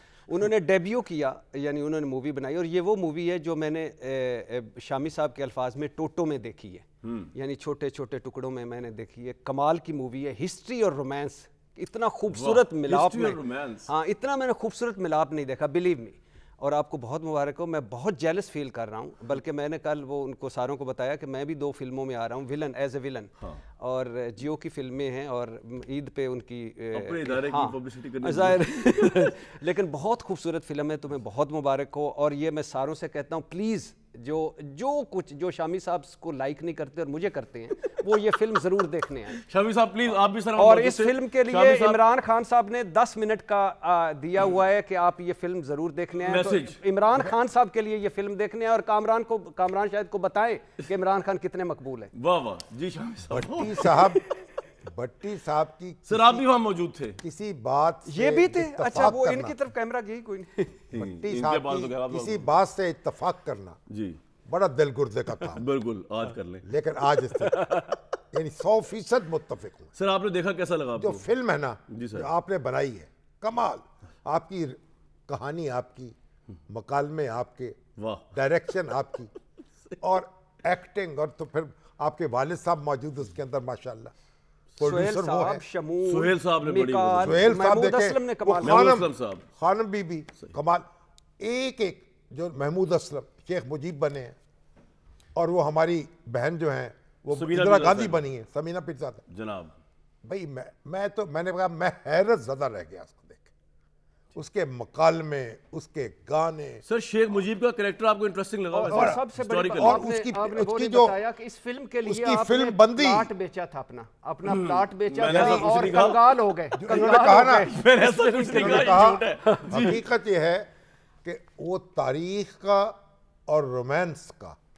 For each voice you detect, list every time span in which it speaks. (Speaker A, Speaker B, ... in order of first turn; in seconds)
Speaker A: 0.3-39.4, 40.5-52.1, 58.1-60.9, 67.3-68.0, 84.8-89.0, 108.7-120.0
Speaker B: 7.0-7.3, 12.3-13.9, 26.9-29.2, 39.4-42.0, 46.2-46.8, 52.1-54.0, 56.1-57.2, 60.9-62.5, 63.9-64.2, 65.4-66.7, 70.0-71.3, 71.9-72.3, 78.0-78.3, 86.0-87.5, 88.6-89.4, 97.3-98.2, 99.3-99.8, 106.8-110.1, 114.5-116.2, 117.6-119.7
Speaker C: 53.3-54.3, 54.9-56.5, 57.2-59.6, 60.9-63.8, 64.5-65.7, 66.6-69.9, 71.0-76.2, 76.7-77.8, 78.3-79.3, 80.0-84.1, 84.8-85.6, 87.2-90.9, 91.4-94.3, 95.3-99.2, 100.2-103.5, 104.3-106.8, 108.9-111.2, 112.1-113.3, 115.2-116.1, 116.8-117.7, 118.5-120.7, 121.2-123.0, 123.5-124.6